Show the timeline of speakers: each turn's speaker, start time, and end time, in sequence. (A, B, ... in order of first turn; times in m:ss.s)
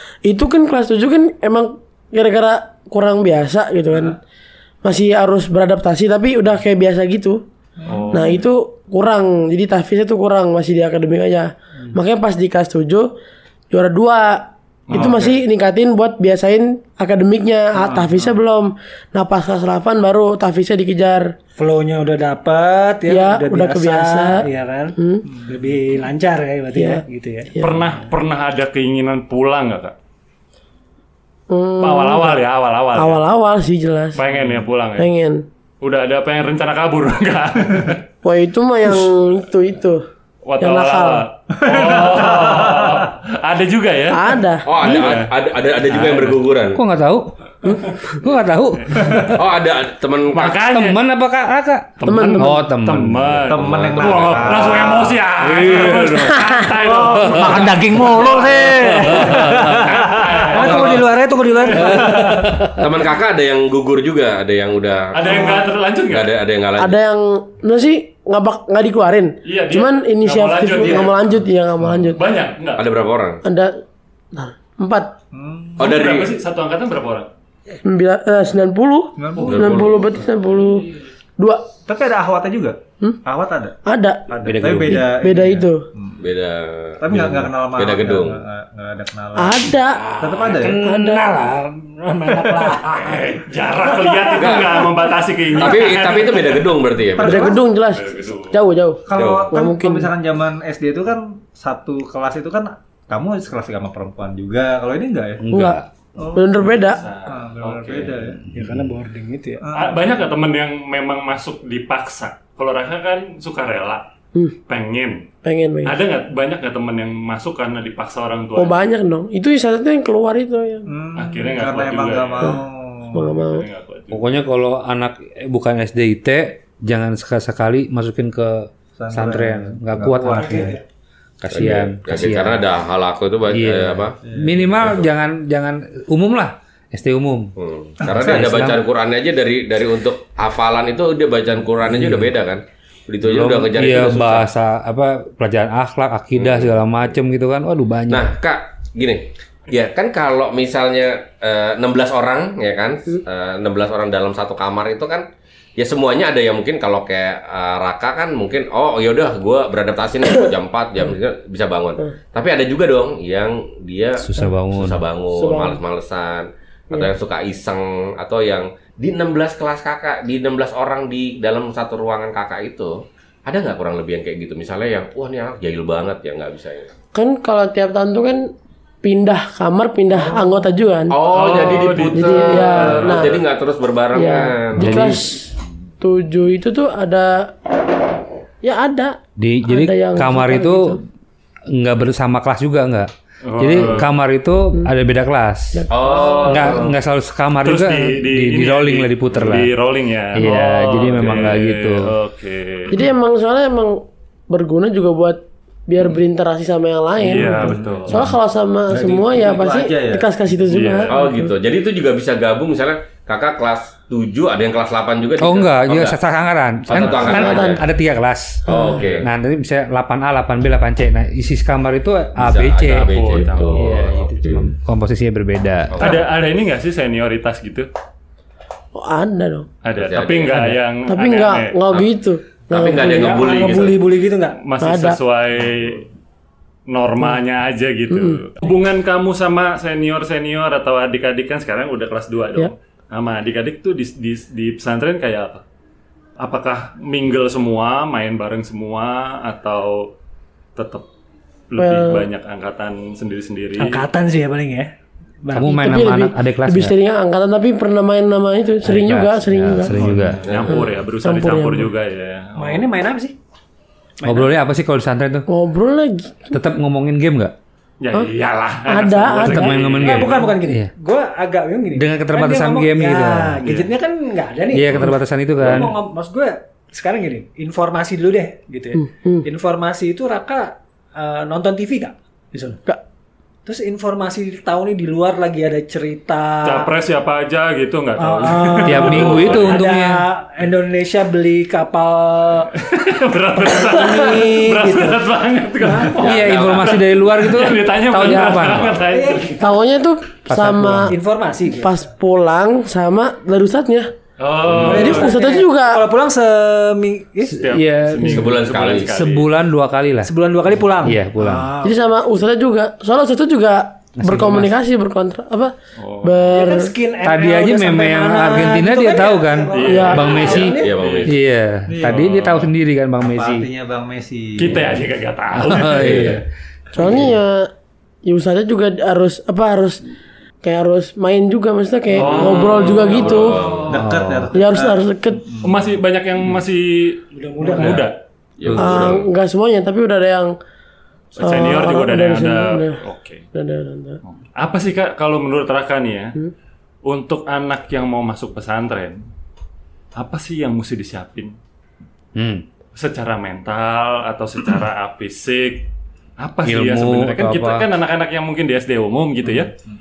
0:00.2-0:04.2 A
0:04.8-0:07.4 A
0:07.8-0:08.2 B
0:07.9-0:08.4 C
0:08.1-0:13.1 A
0:13.7-0:21.3 A
0:14.9-0:15.3 C
0:21.6-0:24.9 D
0:23.1-0:24.4 A
0:25.0-0:25.3 A
0:25.5-0:27.5 D
0:26.7-0:27.0 A
0:27.6-0:29.9 C
0:31.5-0:32.4 A
0:31.8-0:33.2 C
0:32.9-0:34.2 A
0:34.1-0:35.1 C
0:35.0-0:35.4 A
0:35.8-0:38.0 C
0:38.2-0:40.0 A
0:40.4-0:45.3 C
0:40.6-0:41.3 A
0:41.5-0:43.0 B
0:44.1-0:45.2 A
0:44.6-0:46.8 E
0:45.9-0:46.4 C
0:46.7-0:47.3 F
0:47.6-0:48.2 A
0:48.2-0:49.4 F
0:49.0-0:49.3 C
0:49.2-0:50.6 E
0:50.3-0:51.0 C
0:50.7-0:53.4 F
0:52.0-1:01.0 C
0:52.0-0:52.6 A
0:53.5-0:56.0 B
0:53.5-0:55.2 E
0:55.5-0:56.3 F
0:56.3-0:56.7 A
0:56.6-1:01.0 B
0:57.2-0:57.7 F
0:59.0-1:00.0 F
1:00.4-1:02.5 D
1:00.6-1:01.1 E
1:01.7-1:02.5 B
1:02.0-1:02.8 F
1:02.7-1:07.0 E
1:05.1-1:06.3 C
1:05.2-1:05.6 A
1:06.8-1:12.2 A
1:09.4-1:11.4 C
1:12.1-1:12.8 C
1:12.8-1:13.4 E
1:13.4-1:13.8 A
1:14.3-1:15.1 A
1:15.3-1:15.9 B
1:15.8-1:16.3 E
1:15.8-1:17.3 C
1:17.8-1:21.6 A
1:19.2-1:19.8 B
1:19.4-1:20.1 E
1:21.8-1:26.2 B
1:23.8-1:24.3 A
1:24.4-1:25.0 F
1:24.8-1:25.9 A
1:26.2-1:28.4 E
1:27.0-1:30.8 B
1:29.4-1:30.1 A
1:30.0-1:31.7 F
1:30.8-1:31.2 A
1:31.4-1:33.4 D
1:32.9-1:36.7 C
1:34.0-1:34.3 D
1:34.3-1:34.9 E
1:35.5-1:37.4 E
1:37.1-1:37.6 B
1:37.2-1:40.1 A
1:37.9-1:38.6 C
1:39.0-1:45.4 B
1:39.1-1:39.5 E
1:45.4-1:45.8 F
1:45.5-1:45.8 A
1:46.2-1:48.4 B
1:46.3-1:47.0 A
1:46.8-1:48.1 C
1:48.5-1:49.6 D
1:49.6-1:50.2 B
1:49.7-1:54.0 C
1:54.7-1:55.2 C
1:55.4-1:56.0 A
1:55.8-1:58.8 C
1:58.6-2:00.9 A
2:00.8-2:03.3 B
2:01.2-2:02.6 C
2:03.1-2:03.6 A
2:03.4-2:04.3 C
2:04.1-2:10.7 F
2:09.0-2:10.8 B
2:10.3-2:10.8 D
2:11.4-2:12.6 F
2:11.5-2:14.2 E
2:13.5-2:18.8 F
2:14.2-2:15.0 B
2:17.6-2:24.5 E
2:18.0-2:18.4 B
2:21.9-2:22.3 F
2:23.2-2:28.4 F
2:26.4-2:26.7 E
2:28.1-2:35.2 E
2:35.8-2:56.9 E
2:44.2-2:45.0 F
2:45.3-2:45.8 A
2:57.1-2:58.5 A
2:59.0-3:01.2 A
3:01.1-3:04.9 E
3:01.3-3:03.4 C
3:02.1-3:03.4 A
3:04.1-3:07.5 A
3:04.8-3:05.4 F
3:08.6-3:11.0 A
3:09.4-3:11.0 F
3:11.7-3:15.9 F
3:13.4-3:14.1 C
3:15.7-3:16.8 A
3:15.9-3:16.9 E
3:16.4-3:19.7 F
3:17.6-3:22.9 C
3:20.3-3:22.1 F
3:22.9-3:31.5 A
3:27.2-3:28.2 C
3:27.5-3:28.1 B
3:28.9-3:30.2 B
3:30.7-3:31.2 C
3:31.1-3:36.2 E
3:35.4-3:38.7 F
3:36.8-3:37.8 E
3:36.9-3:37.5 C
3:37.3-3:37.8 A
3:38.6-3:39.2 A
3:38.7-3:39.3 E
3:39.2-3:46.2 F
3:42.4-3:44.7 E
3:42.8-3:44.0 C
3:45.9-3:46.3 E
3:46.0-3:47.9 C
3:48.9-3:49.7 A
3:49.8-3:51.7 C
3:50.0-3:50.6 E
3:50.5-3:50.8 F
3:51.1-3:53.4 A
3:52.7-3:54.0 E
3:53.0-3:54.7 D
3:54.6-3:56.1 C
3:54.8-3:55.2 A
3:56.9-4:05.6 C
3:58.1-3:58.4 A
4:06.4-4:10.1 C
4:10.8-4:11.0 C
4:11.7-4:14.0 C
4:11.8-4:12.2 A
4:13.8-4:14.9 D
4:15.4-4:15.7 D
4:15.5-4:16.9 F
4:15.7-4:20.1 A
4:18.8-4:20.4 F
4:20.0-4:20.3 D
4:20.1-4:20.5 B
4:20.4-4:22.9 C
4:20.5-4:20.8 E
4:20.7-4:21.9 A
4:22.6-4:23.4 D
4:24.2-4:25.5 F
4:25.5-4:26.5 A
4:26.5-4:27.5 F
4:28.0-4:30.5 C
4:28.9-4:30.0 A
4:29.4-4:30.9 F
4:29.9-4:42.8 D
4:32.0-4:33.6 F
4:33.6-4:33.9 C
4:34.7-4:35.9 F
4:38.9-4:39.4 A
4:43.6-4:46.9 D
4:46.6-4:49.8 C
4:48.2-4:52.7 D
4:48.8-4:50.2 F
4:52.8-4:59.6 C
4:53.6-4:55.2 D
4:55.8-4:56.2 D
4:56.2-4:57.0 E
4:56.2-4:59.0 F
4:58.3-4:58.7 A
4:59.1-4:59.6 D
4:59.6-5:01.2 A
5:00.5-5:01.1 F
5:01.1-5:01.9 D
5:01.7-5:04.1 A
5:04.4-5:05.4 C
5:04.7-5:07.6 D
5:04.9-5:06.1 A
5:07.5-5:10.3 F
5:07.5-5:09.5 C
5:08.2-5:09.1 E
5:10.2-5:12.0 D
5:11.0-5:11.7 F
5:11.8-5:16.9 A
5:14.2-5:14.7 F
5:16.0-5:16.4 C
5:16.5-5:20.9 D
5:17.2-5:23.7 F
5:19.7-5:21.3 C
5:19.8-5:20.3 A
5:20.3-5:21.4 E
5:21.9-5:22.5 B
5:22.0-5:22.7 C
5:23.2-5:24.9 B
5:24.6-5:26.4 C
5:25.5-5:26.4 F
5:25.8-5:26.4 B
5:26.9-5:27.7 A
5:28.2-5:30.0 A
5:30.6-5:33.6 A
5:32.1-5:34.0 C
5:32.3-5:34.0 E
5:33.8-5:36.0 B
5:33.9-5:34.5 F
5:34.5-5:35.4 A
5:35.6-5:38.2 C
5:37.3-5:38.1 D
5:38.6-5:39.3 E
5:38.7-5:40.5 A
5:41.4-5:43.4 C
5:41.4-5:43.0 A
5:43.5-5:44.2 A
5:44.2-5:46.4 C
5:47.0-5:49.2 C
5:50.2-5:51.5 C
5:52.3-5:52.6 F
5:52.9-5:55.9 C
5:56.4-5:59.7 C
5:56.6-5:57.9 F